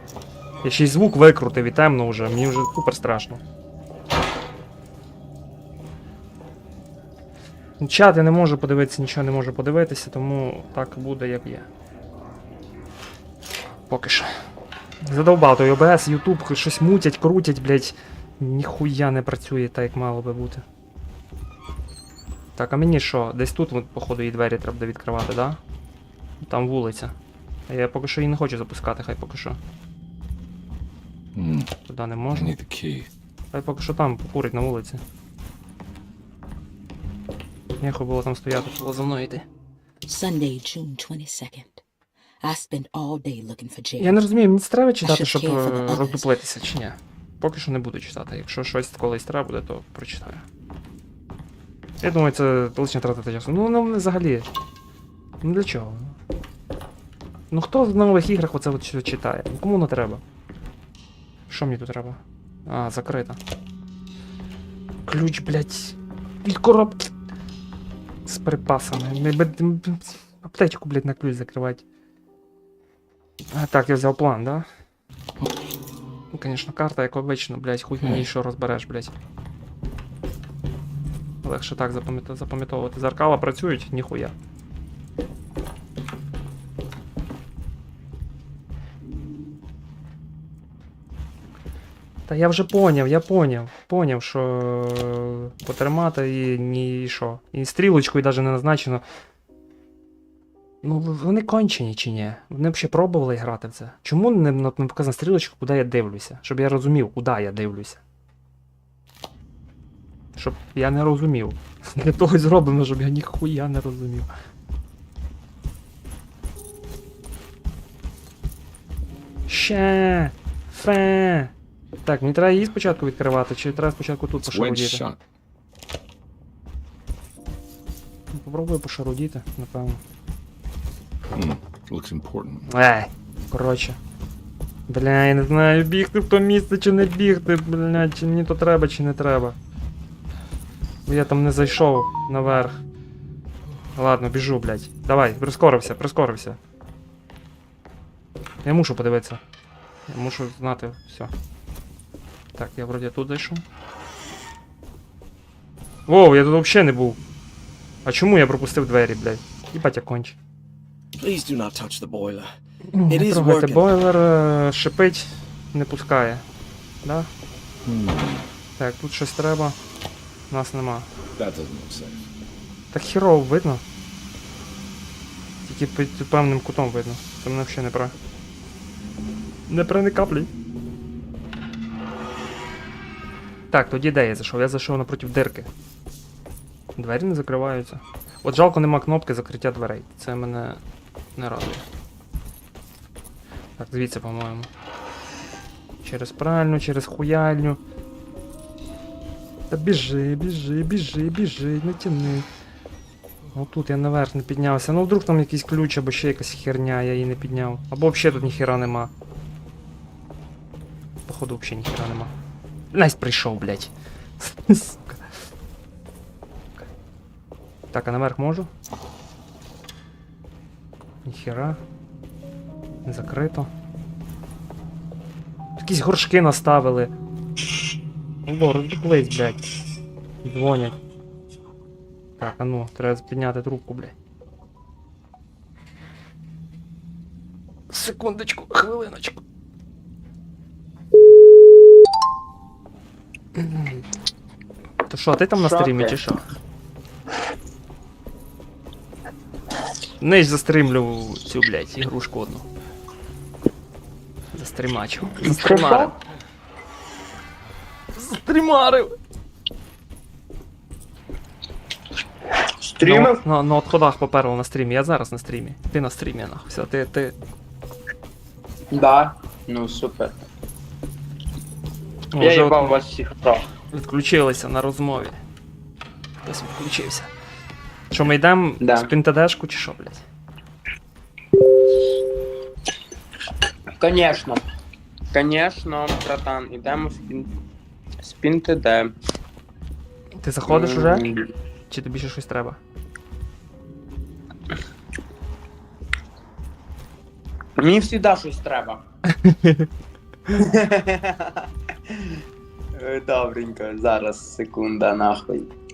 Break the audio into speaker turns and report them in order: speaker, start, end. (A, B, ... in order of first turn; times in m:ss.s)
0:00.6-0:03.4 A
0:07.8-0:11.7 A
0:13.9-0:14.3 A
0:15.0-0:20.6 A
0:22.6-0:25.6 A
0:26.4-0:27.2 A
0:27.7-0:29.6 A
0:31.4-0:31.7 B
0:31.9-0:32.6 A
0:32.3-0:33.1 B
0:33.5-0:35.0 A
0:37.8-0:39.4 A
0:40.1-0:41.8 C
0:42.4-0:44.2 C
0:44.0-0:50.5 A
0:45.0-0:46.3 C
0:52.0-0:54.5 A
0:55.4-0:56.2 A
0:57.5-1:00.2 A
1:01.5-1:03.4 A
1:05.1-1:07.1 A
1:08.3-1:11.8 A
1:13.5-1:14.7 A
1:16.3-1:19.1 A
1:18.0-1:18.2 B
1:21.4-1:24.4 A
1:32.3-1:39.0 A
1:40.8-1:48.0 A
1:50.4-1:54.3 A
1:59.5-2:01.5 A
2:02.0-2:05.0 A
2:04.4-2:05.2 B
2:08.3-2:10.0 A
2:11.3-2:12.7 B
2:12.7-2:14.0 A
2:14.9-2:19.6 A
2:21.1-2:22.8 A
2:24.0-2:26.6 A
2:28.6-2:29.4 A
2:30.1-2:31.3 A
2:32.6-2:33.6 A
2:36.1-2:37.2 A
2:38.0-2:40.4 A
2:41.2-2:42.5 D
2:42.8-2:46.4 A
2:43.1-2:43.9 D
2:47.0-2:47.3 A
2:47.8-2:48.5 B
2:48.8-2:49.8 A
2:50.5-2:51.1 A
2:51.4-2:52.3 B
2:52.9-2:53.8 A
2:55.6-2:58.2 A
2:59.7-3:00.5 A
3:03.7-3:05.7 A
3:07.0-3:10.8 A
3:11.4-3:11.8 A
3:13.8-3:14.7 A
3:16.0-3:17.8 A
3:19.7-3:22.5 A
3:23.5-3:29.1 A
3:31.3-3:32.3 A
3:32.9-3:35.4 A
3:37.9-3:38.7 A
3:41.2-3:41.8 A
3:43.0-3:43.7 A
3:45.8-3:47.1 A
3:48.5-3:49.7 A
3:50.4-3:51.0 A
3:52.4-3:54.2 A
3:57.9-3:59.4 A
4:03.6-4:04.0 A
4:05.1-4:06.4 A
4:05.6-4:06.2 E
4:10.2-4:12.7 A
4:14.5-4:16.2 A
4:15.4-4:16.2 E
4:18.2-4:19.1 A
4:22.8-4:23.4 E
4:23.0-4:27.4 A
4:28.9-4:30.4 E
4:32.3-4:33.0 A
4:32.4-4:33.7 E
4:33.9-4:35.4 A
4:36.4-4:37.3 A
4:38.1-4:40.2 A
4:38.8-4:39.1 E
4:44.0-4:44.6 E
4:45.3-4:47.5 E
4:48.2-4:49.1 E
4:50.4-4:51.3 A
4:50.7-4:51.4 E
4:51.9-4:52.8 A
4:57.8-4:59.0 E
4:59.4-4:59.9 A
5:00.5-5:02.4 E
5:03.0-5:05.7 E